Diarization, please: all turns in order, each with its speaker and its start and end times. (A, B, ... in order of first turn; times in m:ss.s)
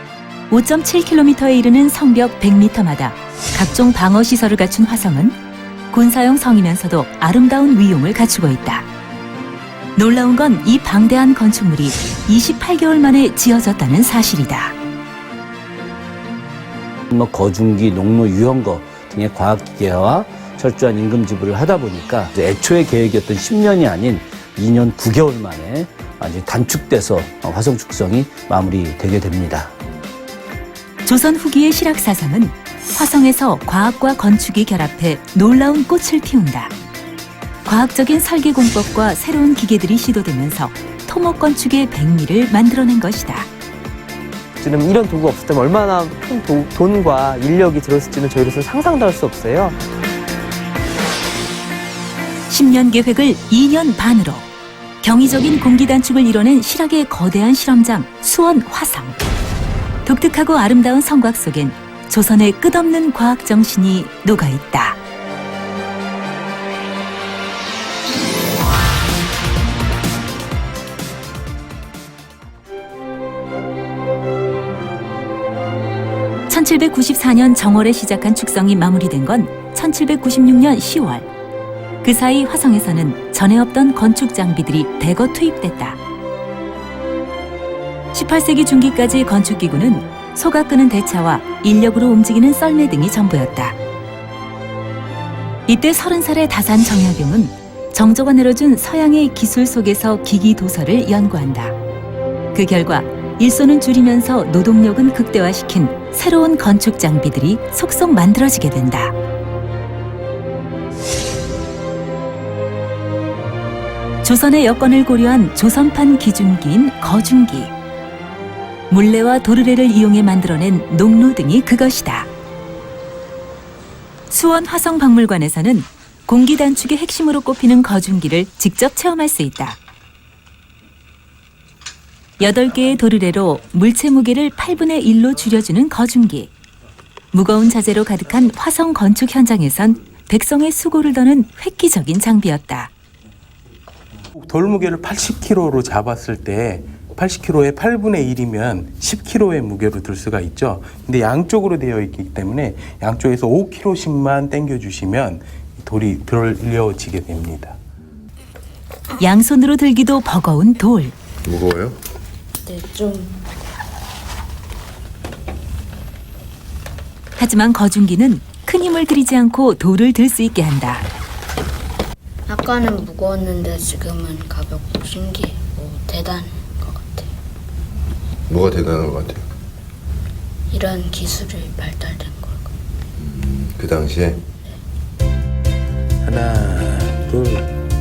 0:00.5-0:05.4 A
0:05.9-0:08.8 A
0:10.0-0:14.7 A
0:17.1-0:29.7 B
0:31.0-0:36.7 A
0:37.6-0:43.5 A
0:44.6-0:49.8 C
0:52.5-0:54.4 A
0:55.0-0:59.2 A
1:00.0-1:05.0 A
1:16.5-1:21.3 A
1:22.0-1:26.0 A
1:28.1-1:33.8 A
1:35.7-1:41.8 A
1:42.5-1:49.1 A
1:54.2-1:57.7 A
1:58.9-2:02.3 A
2:04.3-2:09.8 A
2:12.4-2:16.5 A
2:17.3-2:22.9 A
2:24.4-2:37.8 D
2:39.2-2:41.1 A
2:41.4-2:42.0 E
2:42.6-2:43.5 F
2:47.4-2:51.0 A
2:52.5-2:57.3 F
2:58.5-2:59.4 E
3:00.7-3:02.7 F
3:03.2-3:04.5 E
3:06.2-3:07.6 D